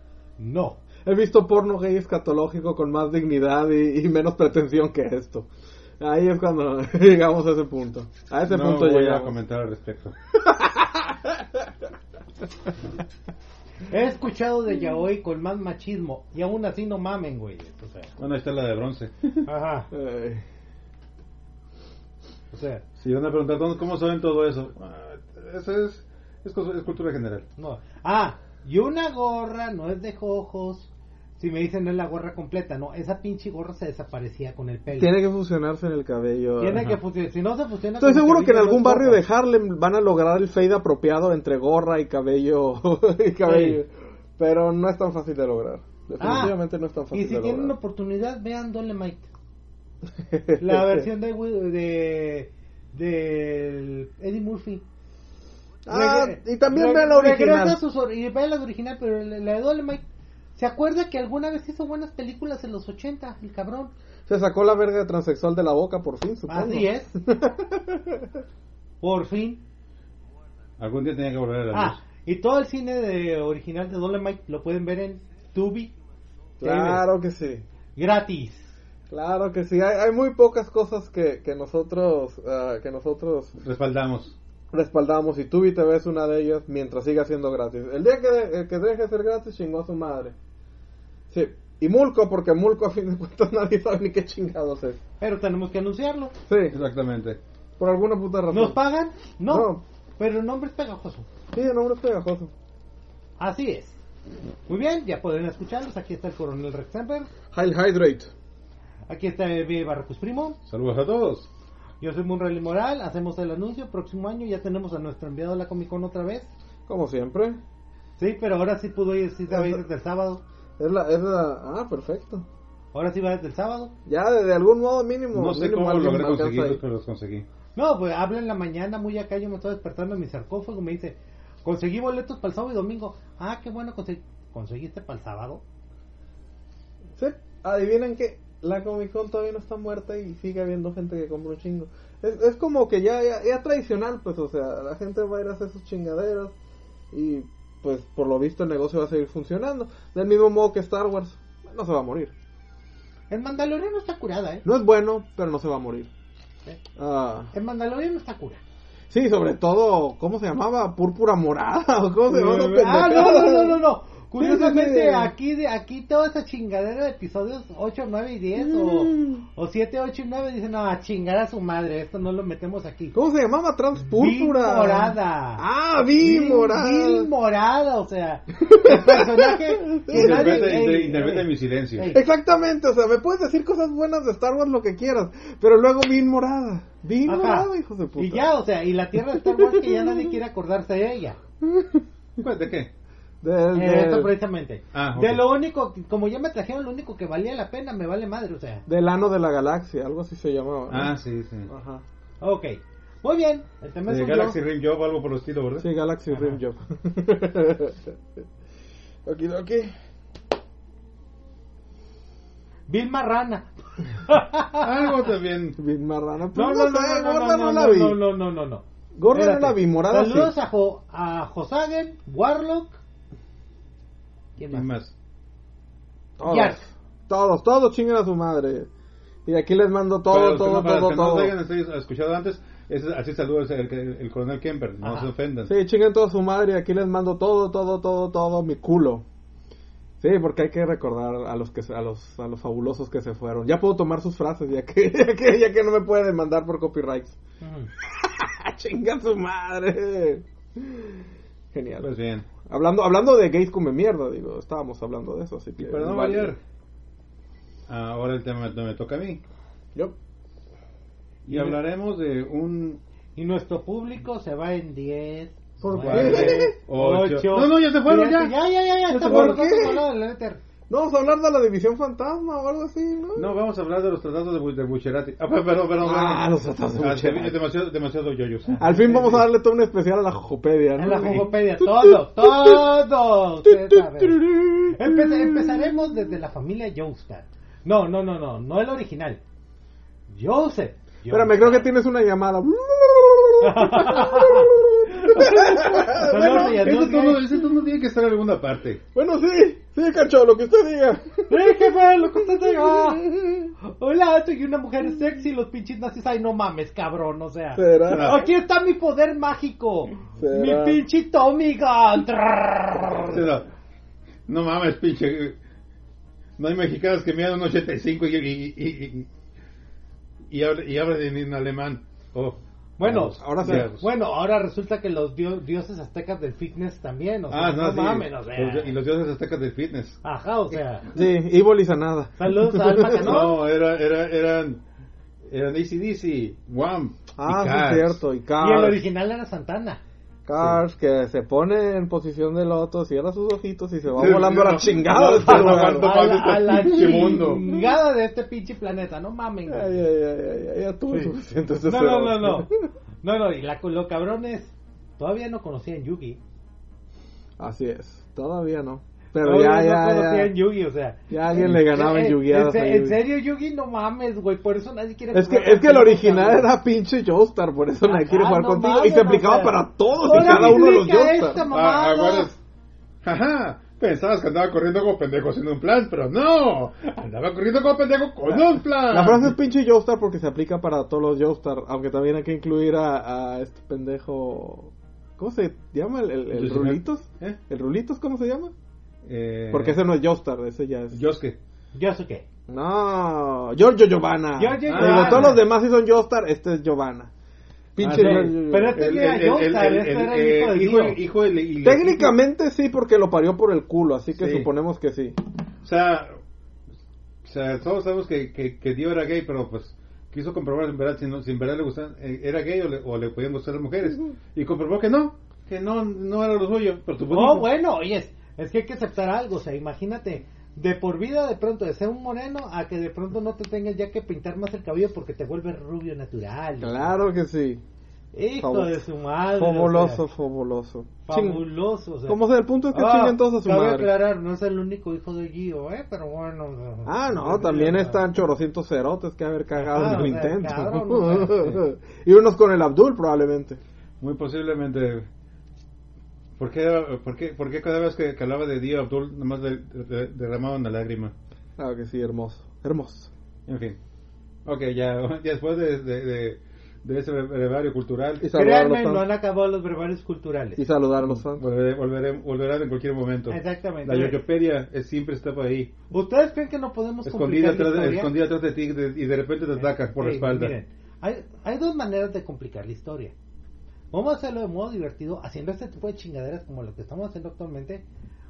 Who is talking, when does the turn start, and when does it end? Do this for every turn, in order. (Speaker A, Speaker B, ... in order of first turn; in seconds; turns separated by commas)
Speaker A: 0.4-0.8, Speaker B: 1.0-5.5, Speaker B: 6.0-9.3, Speaker C: 8.5-10.1, Speaker B: 10.4-11.4, Speaker A: 13.9-18.1, Speaker C: 18.2-19.3, Speaker A: 19.4-19.9, Speaker B: 19.9-20.4, Speaker A: 22.5-22.8, Speaker C: 23.0-27.4, Speaker A: 27.6-35.2, Speaker B: 34.9-36.9, Speaker A: 36.6-39.2, Speaker B: 38.0-47.7, Speaker A: 43.5-43.8, Speaker A: 46.2-46.6, Speaker A: 47.1-49.3, Speaker B: 50.3-51.0, Speaker A: 50.5-54.8, Speaker B: 55.9-57.8, Speaker A: 55.9-60.0, Speaker A: 60.5-63.9, Speaker B: 64.3-68.3, Speaker A: 66.5-67.1, Speaker A: 69.0-69.6, Speaker C: 70.8-72.0, Speaker A: 71.7-75.9, Speaker B: 76.6-77.7, Speaker A: 76.6-77.0, Speaker A: 78.0-78.7, Speaker B: 79.1-83.6, Speaker C: 83.6-84.3, Speaker B: 84.7-90.3, Speaker B: 91.3-95.0, Speaker A: 95.2-96.3, Speaker B: 96.5-96.8, Speaker C: 96.7-97.4, Speaker B: 97.8-98.8, Speaker A: 98.5-101.3, Speaker B: 99.5-99.8, Speaker B: 101.5-102.5, Speaker A: 103.4-104.0, Speaker A: 104.7-107.3, Speaker B: 107.5-108.3, Speaker A: 109.1-110.6, Speaker C: 110.7-111.5, Speaker A: 112.0-116.5, Speaker B: 116.9-117.6, Speaker A: 118.2-120.4, Speaker B: 119.5-119.8, Speaker B: 120.8-122.5, Speaker A: 122.9-123.9, Speaker B: 124.0-126.8, Speaker C: 125.3-127.5, Speaker A: 127.8-135.6, Speaker B: 137.2-146.5, Speaker B: 147.1-152.3, Speaker A: 153.3-154.6, Speaker B: 154.6-156.1, Speaker B: 157.0-157.5, Speaker A: 157.5-158.6, Speaker B: 159.1-163.8, Speaker A: 162.3-173.2, Speaker B: 164.4-165.3, Speaker B: 168.6-169.4, Speaker B: 173.1-177.3, Speaker A: 174.1-182.2, Speaker B: 178.5-180.8, Speaker C: 180.1-182.1, Speaker B: 182.1-188.5, Speaker A: 187.2-191.4, Speaker B: 189.5-190.3, Speaker B: 191.6-192.0, Speaker C: 192.4-192.9, Speaker B: 193.4-194.3, Speaker A: 193.7-198.8, Speaker C: 194.9-195.5, Speaker B: 198.8-202.0, Speaker C: 200.9-201.7, Speaker A: 202.4-204.6, Speaker C: 204.1-205.9, Speaker B: 205.8-208.2, Speaker B: 209.2-209.9, Speaker A: 212.9-213.7, Speaker A: 214.2-215.1, Speaker C: 214.8-215.8, Speaker B: 215.8-218.2, Speaker A: 216.5-223.0, Speaker B: 219.1-220.6, Speaker A: 224.6-224.9, Speaker C: 224.7-225.1, Speaker B: 226.4-228.9, Speaker A: 226.5-226.8, Speaker B: 229.4-231.5, Speaker C: 230.3-235.7, Speaker A: 235.0-235.3, Speaker B: 235.7-239.2, Speaker B: 240.2-247.4, Speaker A: 247.6-247.9, Speaker B: 248.0-252.1, Speaker C: 252.0-252.5, Speaker B: 252.6-256.6, Speaker C: 255.8-256.6, Speaker C: 257.9-259.4, Speaker C: 261.4-263.0, Speaker A: 261.5-261.8, Speaker A: 263.4-270.6, Speaker B: 265.8-266.8, Speaker C: 266.0-268.6, Speaker C: 269.1-269.8, Speaker B: 269.2-270.0, Speaker B: 270.9-273.5, Speaker C: 273.4-279.5, Speaker B: 276.0-277.6, Speaker B: 278.8-282.8, Speaker A: 281.0-284.4, Speaker B: 283.6-285.9, Speaker A: 284.9-289.4, Speaker A: 290.3-291.9, Speaker B: 291.3-296.8, Speaker A: 293.6-297.4, Speaker C: 296.0-299.0, Speaker B: 299.1-303.7, Speaker A: 301.5-303.3, Speaker A: 303.8-313.4, Speaker B: 307.8-308.4, Speaker C: 308.1-308.4, Speaker B: 310.4-311.0, Speaker C: 313.2-313.7, Speaker C: 314.5-315.6, Speaker C: 316.6-319.3, Speaker C: 320.5-324.1, Speaker A: 323.0-328.9, Speaker B: 323.2-323.9, Speaker C: 327.5-330.2, Speaker A: 330.2-331.1, Speaker B: 331.1-333.5, Speaker A: 332.4-333.6, Speaker C: 333.1-334.8, Speaker C: 335.5-338.2, Speaker B: 337.4-339.1, Speaker A: 338.6-340.0, Speaker B: 340.4-347.8, Speaker C: 344.1-347.6, Speaker A: 345.4-350.0, Speaker B: 349.7-352.9, Speaker A: 351.1-352.7, Speaker A: 353.2-356.4, Speaker B: 357.6-360.6, Speaker A: 359.4-366.7, Speaker B: 361.3-363.2, Speaker B: 365.3-371.6, Speaker A: 368.0-372.5, Speaker C: 370.4-370.8, Speaker C: 371.7-372.6, Speaker C: 373.2-379.6, Speaker B: 378.5-388.7, Speaker C: 386.5-387.6, Speaker C: 389.2-390.0, Speaker B: 389.7-391.2, Speaker C: 391.1-391.6, Speaker A: 391.9-392.4, Speaker B: 392.7-397.3, Speaker A: 394.6-395.6, Speaker C: 394.9-395.6, Speaker B: 397.9-399.0, Speaker C: 398.0-402.4, Speaker A: 398.1-401.2, Speaker B: 401.8-405.4, Speaker C: 404.3-404.7, Speaker C: 405.8-406.4, Speaker C: 407.4-417.7, Speaker A: 417.3-427.1, Speaker B: 426.8-427.8, Speaker A: 428.3-430.2, Speaker B: 428.6-431.6, Speaker A: 431.2-438.2, Speaker B: 432.2-434.1, Speaker B: 437.1-443.8, Speaker A: 439.8-441.7, Speaker C: 444.2-445.2, Speaker C: 446.6-451.3, Speaker B: 451.8-453.3, Speaker C: 453.7-454.0, Speaker C: 454.6-458.4, Speaker B: 458.4-459.3, Speaker A: 458.5-460.8, Speaker B: 460.8-461.6, Speaker C: 461.3-465.9, Speaker A: 463.5-464.4, Speaker A: 466.1-468.3, Speaker C: 467.2-470.8, Speaker A: 469.8-473.3, Speaker A: 474.1-478.0